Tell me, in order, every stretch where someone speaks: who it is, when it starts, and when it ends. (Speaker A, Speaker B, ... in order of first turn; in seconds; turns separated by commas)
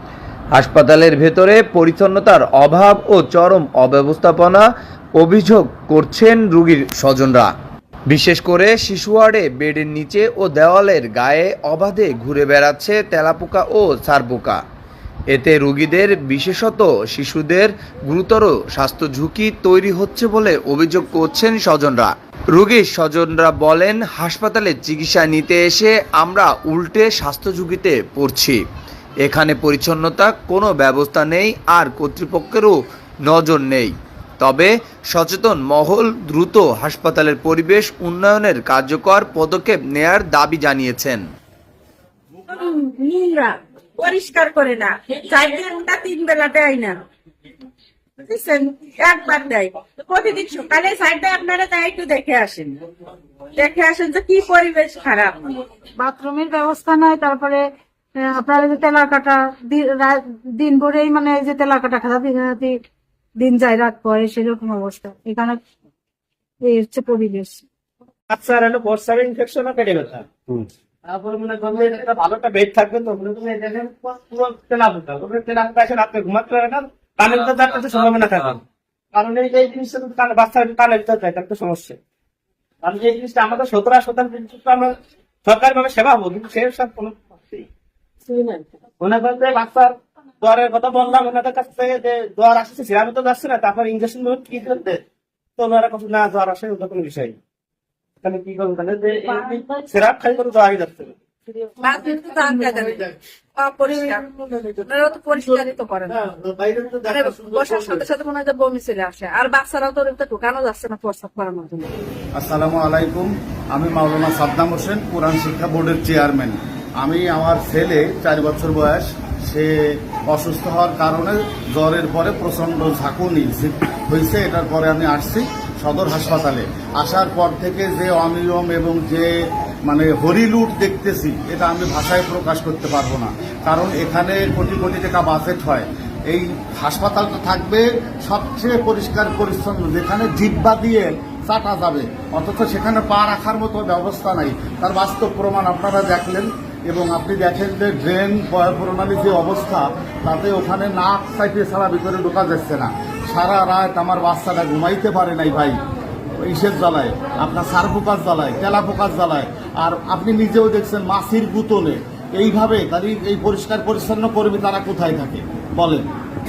Speaker A: 0.5-4.7, Speaker A: 5.2-7.5, Speaker A: 8.1-14.6, Speaker A: 15.3-28.6, Speaker A: 29.2-41.2, Speaker B: 42.5-47.0, Speaker B: 48.2-52.8, Speaker B: 53.6-55.6, Speaker C: 56.0-57.6, Speaker C: 58.2-62.8, Speaker C: 63.4-65.6, Speaker C: 66.6-67.6, Speaker D: 68.3-70.3, Speaker D: 71.0-78.6, Speaker D: 79.1-82.0, Speaker D: 82.8-87.7, Speaker D: 89.0-95.0, Speaker D: 95.6-97.4, Speaker D: 98.2-101.2, Speaker B: 101.8-104.3, Speaker B: 104.8-106.3, Speaker D: 106.7-107.0, Speaker B: 107.0-111.9, Speaker E: 112.4-129.3, Speaker E: 129.9-155.8, Speaker E: 156.4-166.0